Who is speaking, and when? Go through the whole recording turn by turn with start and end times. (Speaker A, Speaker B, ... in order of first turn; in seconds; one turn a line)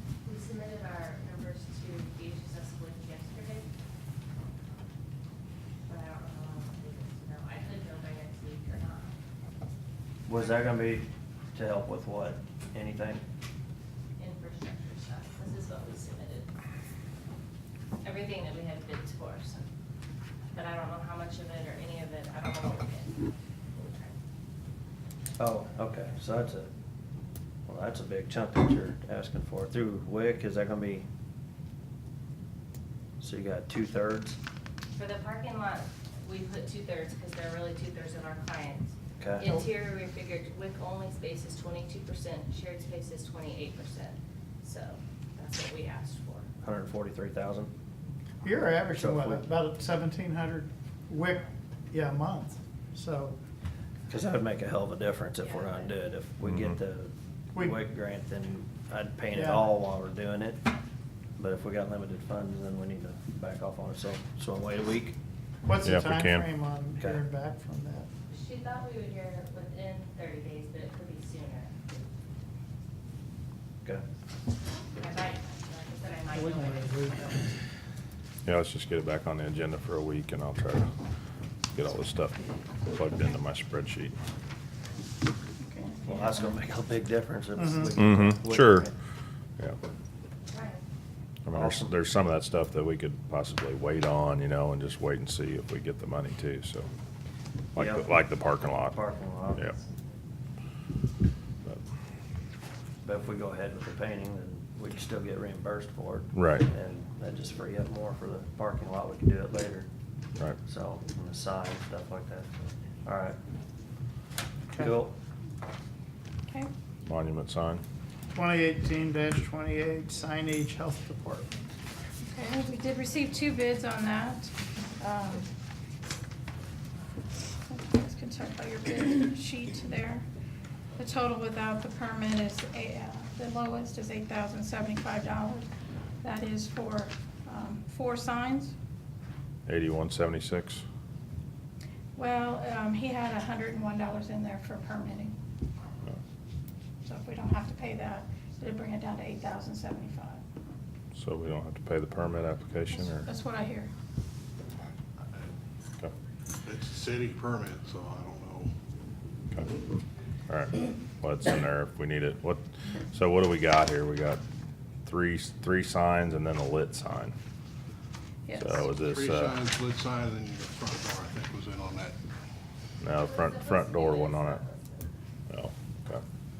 Speaker A: 0.2-3.7
Speaker A: 5.9-9.2
Speaker B: 10.3-13.2
Speaker A: 14.2-16.5
Speaker A: 18.0-19.7
Speaker A: 20.5-24.1
Speaker B: 25.4-26.7
Speaker B: 27.7-31.1
Speaker B: 33.2-34.4
Speaker A: 34.9-46.5
Speaker B: 39.2-39.6
Speaker B: 46.6-47.7
Speaker C: 48.4-53.4
Speaker B: 49.0-49.4
Speaker B: 54.1-60.6
Speaker A: 55.4-55.9
Speaker C: 59.3-59.6
Speaker B: 61.4-65.2
Speaker C: 65.7-68.1
Speaker D: 65.8-66.5
Speaker A: 68.3-72.0
Speaker A: 75.0-77.5
Speaker C: 76.3-77.0
Speaker D: 78.5-80.9
Speaker D: 81.7-84.2
Speaker E: 85.6-86.5
Speaker B: 86.0-88.9
Speaker C: 87.6-87.9
Speaker D: 88.0-88.9
Speaker A: 90.5-90.8
Speaker D: 91.5-96.9
Speaker B: 91.5-91.9
Speaker D: 97.8-99.0
Speaker B: 97.8-98.1
Speaker B: 98.9-99.8
Speaker B: 103.0-109.9
Speaker D: 106.3-106.7
Speaker B: 110.7-112.5
Speaker B: 113.0-113.4
Speaker B: 114.8-115.2
Speaker D: 117.1-117.8
Speaker C: 118.3-121.5
Speaker E: 122.2-125.5
Speaker E: 127.7-130.2
Speaker E: 131.0-135.7
Speaker E: 136.2-138.8
Speaker D: 139.7-140.8
Speaker E: 142.2-145.3
Speaker E: 147.1-150.4
Speaker D: 151.2-153.3
Speaker E: 153.0-153.9
Speaker F: 156.7-158.7
Speaker D: 160.5-164.4
Speaker D: 165.1-167.3
Speaker E: 168.5-168.8
Speaker D: 168.5-169.6
Speaker F: 168.9-172.2
Speaker D: 173.0-174.6
Speaker A: 173.1-175.1
Speaker D: 175.5-176.2